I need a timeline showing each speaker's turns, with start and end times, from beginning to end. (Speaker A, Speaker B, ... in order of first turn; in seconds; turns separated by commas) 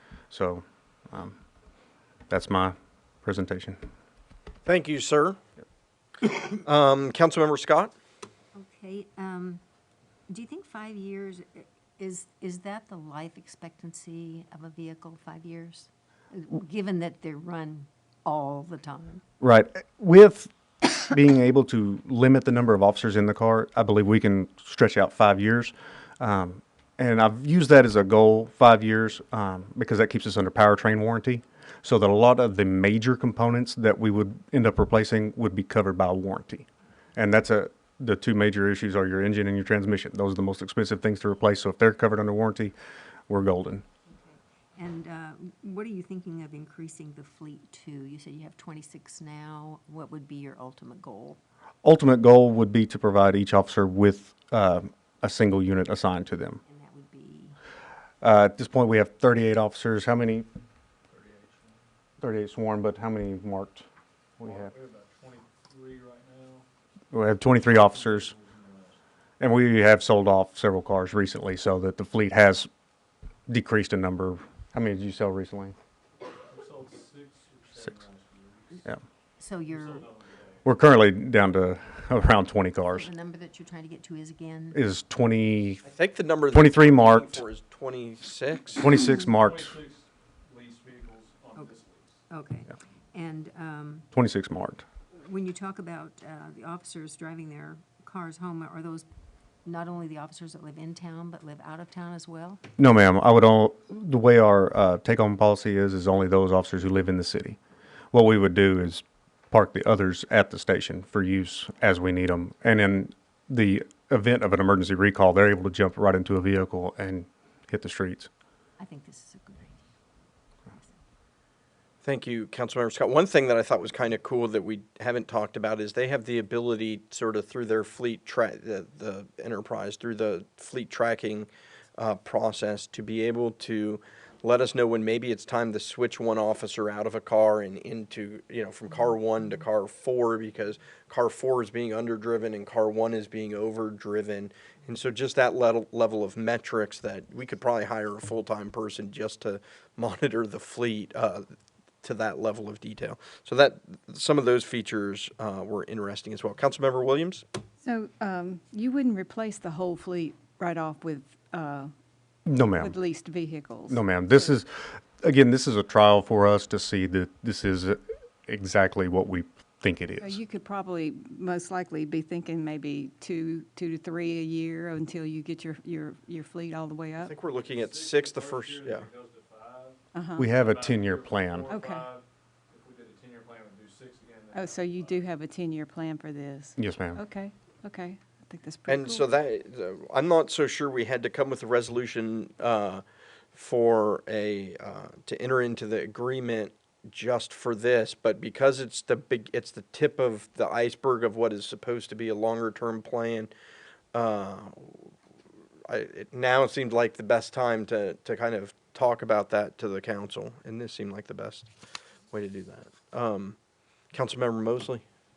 Speaker A: 0.3-1.4, Speaker A: 2.3-3.8, Speaker B: 4.7-5.4, Speaker B: 6.3-7.9, Speaker C: 8.6-9.6, Speaker C: 10.3-19.2, Speaker A: 19.4-42.8, Speaker A: 43.3-43.8, Speaker C: 44.1-51.4, Speaker A: 51.8-56.6, Speaker C: 56.6-57.6, Speaker A: 58.2-60.5, Speaker D: 61.1-61.8, Speaker A: 62.2-63.9, Speaker A: 64.4-64.7, Speaker D: 64.4-66.7, Speaker A: 67.1-68.3, Speaker D: 67.7-69.0, Speaker A: 69.4-72.7, Speaker A: 73.5-75.8, Speaker D: 76.5-78.9, Speaker C: 79.4-80.1, Speaker D: 79.6-80.6, Speaker A: 80.7-83.1, Speaker C: 82.9-84.8, Speaker A: 84.7-85.8, Speaker B: 85.8-89.0, Speaker A: 86.5-87.4, Speaker A: 88.8-89.7, Speaker D: 89.0-92.2, Speaker C: 92.3-94.1, Speaker A: 94.1-94.8, Speaker C: 95.1-99.1, Speaker C: 99.7-102.6, Speaker A: 102.8-107.6, Speaker A: 108.1-118.3, Speaker C: 118.8-119.9, Speaker C: 120.7-121.0, Speaker B: 122.0-151.5, Speaker B: 152.0-157.4, Speaker E: 157.8-161.9, Speaker A: 162.5-163.0, Speaker E: 162.8-164.5, Speaker A: 163.9-170.4, Speaker E: 170.2-177.3, Speaker B: 177.2-179.1, Speaker D: 177.7-185.2, Speaker E: 180.1-180.5, Speaker A: 180.4-181.7, Speaker E: 181.7-182.1, Speaker E: 184.5-189.2, Speaker A: 186.8-187.2, Speaker B: 188.9-203.5, Speaker B: 204.1-205.1, Speaker B: 205.9-211.7, Speaker B: 212.3-213.6, Speaker B: 214.1-215.0